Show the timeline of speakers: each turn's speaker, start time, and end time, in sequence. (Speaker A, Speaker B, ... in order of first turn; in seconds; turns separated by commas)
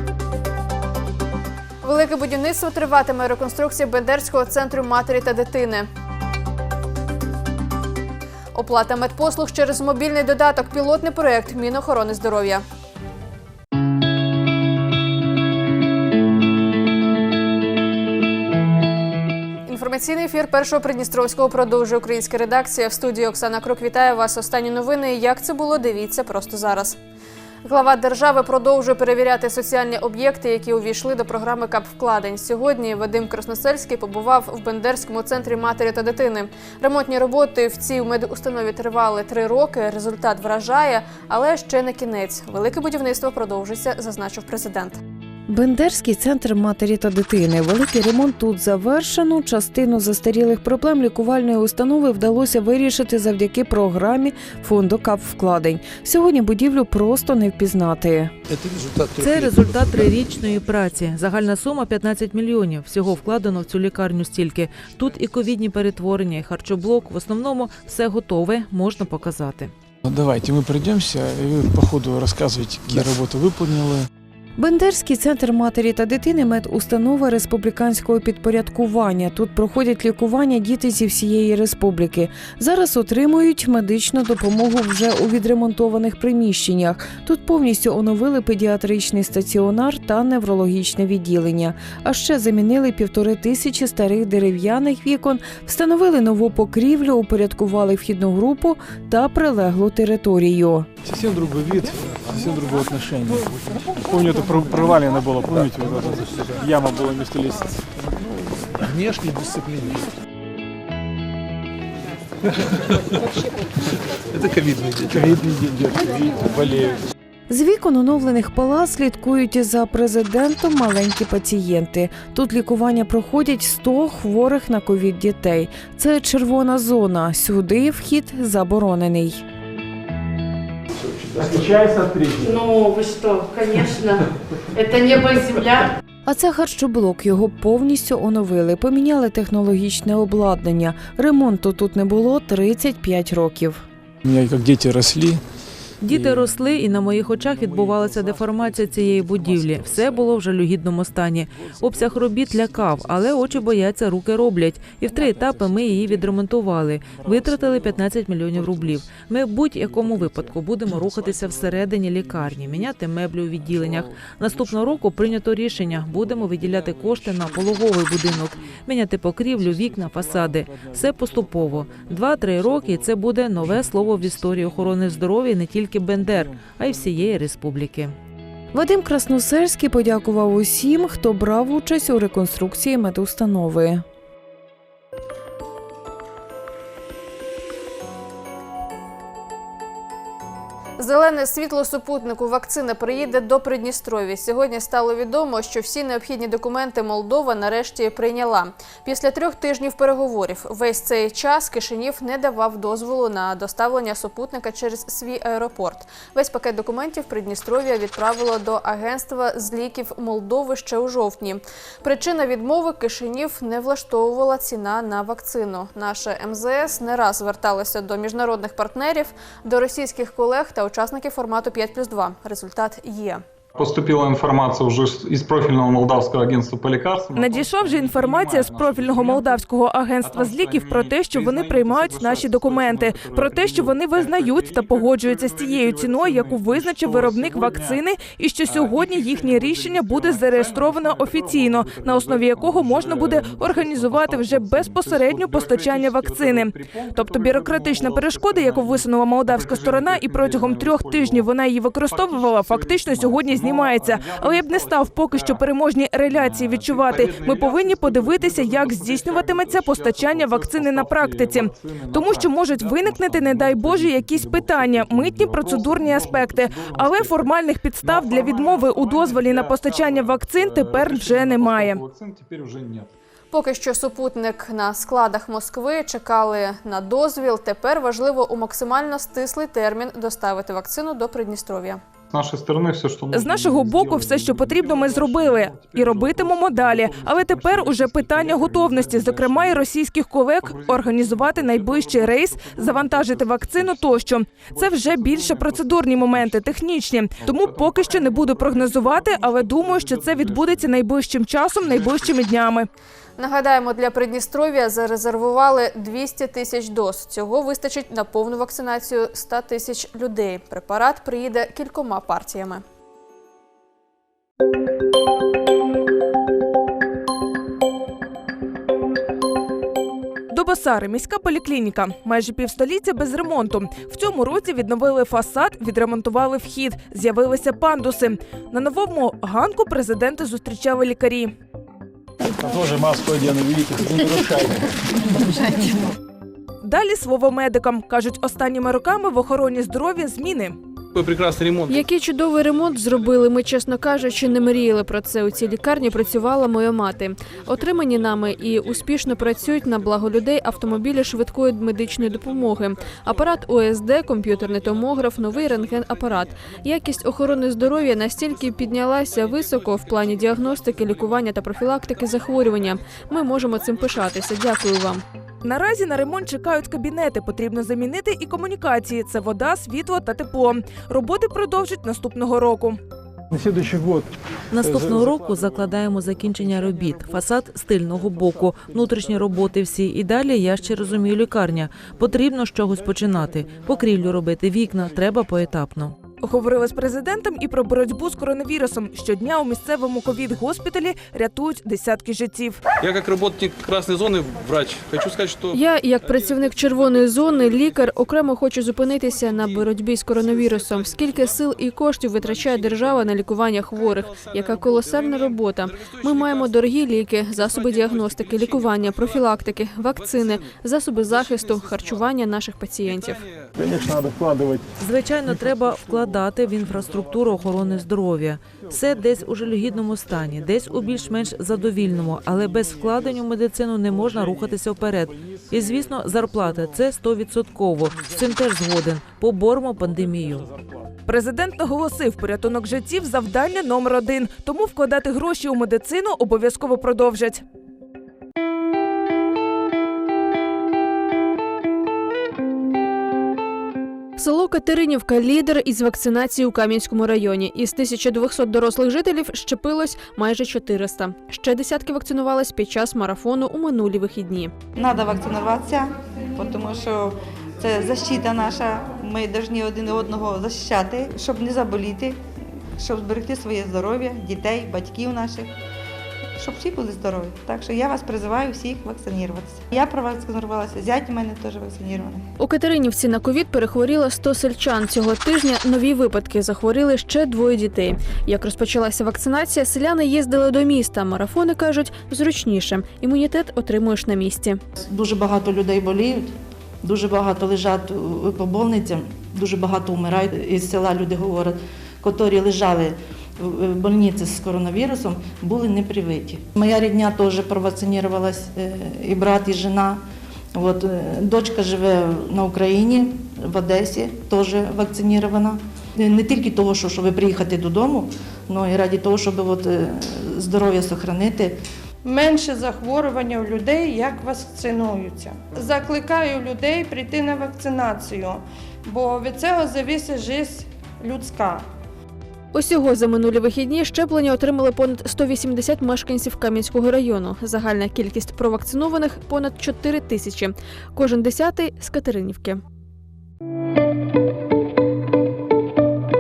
Speaker A: 1.8-5.9, Speaker A: 8.5-12.6, Speaker A: 19.7-27.0, Speaker A: 27.6-45.0, Speaker B: 45.5-58.3, Speaker C: 59.2-69.7, Speaker D: 70.0-74.1, Speaker B: 74.6-100.9, Speaker D: 101.0-103.5, Speaker D: 104.1-107.8, Speaker D: 108.6-109.4, Speaker E: 114.4-115.3, Speaker D: 115.1-117.0, Speaker B: 117.5-129.4, Speaker D: 131.2-132.5, Speaker F: 132.3-135.9, Speaker B: 136.3-143.8, Speaker D: 144.2-145.4, Speaker C: 146.0-178.2, Speaker D: 146.1-146.5, Speaker D: 147.6-150.2, Speaker D: 152.2-153.6, Speaker D: 155.3-156.2, Speaker D: 157.3-157.9, Speaker D: 160.0-160.5, Speaker D: 161.1-161.8, Speaker D: 162.4-162.9, Speaker D: 163.7-165.3, Speaker D: 166.0-168.5, Speaker D: 169.6-174.9, Speaker D: 176.3-177.2, Speaker B: 178.7-184.0, Speaker A: 191.0-223.4, Speaker G: 223.8-229.6, Speaker H: 227.3-272.0, Speaker G: 230.2-238.0, Speaker G: 238.7-251.5, Speaker G: 252.1-255.7, Speaker G: 256.3-273.1, Speaker A: 273.5-282.0, Speaker G: 282.3-289.8, Speaker H: 283.3-302.9, Speaker G: 290.6-294.2, Speaker G: 294.7-296.7, Speaker G: 297.4-300.9, Speaker G: 301.8-302.3, Speaker A: 303.4-312.8, Speaker H: 320.5-331.5, Speaker D: 332.6-334.8, Speaker H: 336.8-340.8, Speaker E: 341.1-342.1, Speaker A: 341.9-365.2, Speaker H: 365.6-373.0, Speaker D: 373.5-374.3, Speaker C: 374.7-386.2, Speaker D: 374.8-375.2, Speaker H: 386.4-392.8, Speaker E: 393.0-395.8, Speaker A: 395.7-413.4, Speaker E: 405.0-405.6, Speaker E: 408.1-409.1, Speaker D: 413.8-414.8, Speaker C: 415.0-430.7, Speaker H: 431.3-437.6, Speaker A: 444.4-454.7, Speaker I: 455.0-462.4, Speaker I: 463.0-465.7, Speaker I: 466.6-472.4, Speaker A: 472.6-484.8, Speaker J: 485.1-486.5, Speaker J: 487.1-493.1, Speaker J: 493.6-500.2, Speaker J: 500.8-511.7, Speaker K: 512.2-521.8, Speaker A: 522.7-532.8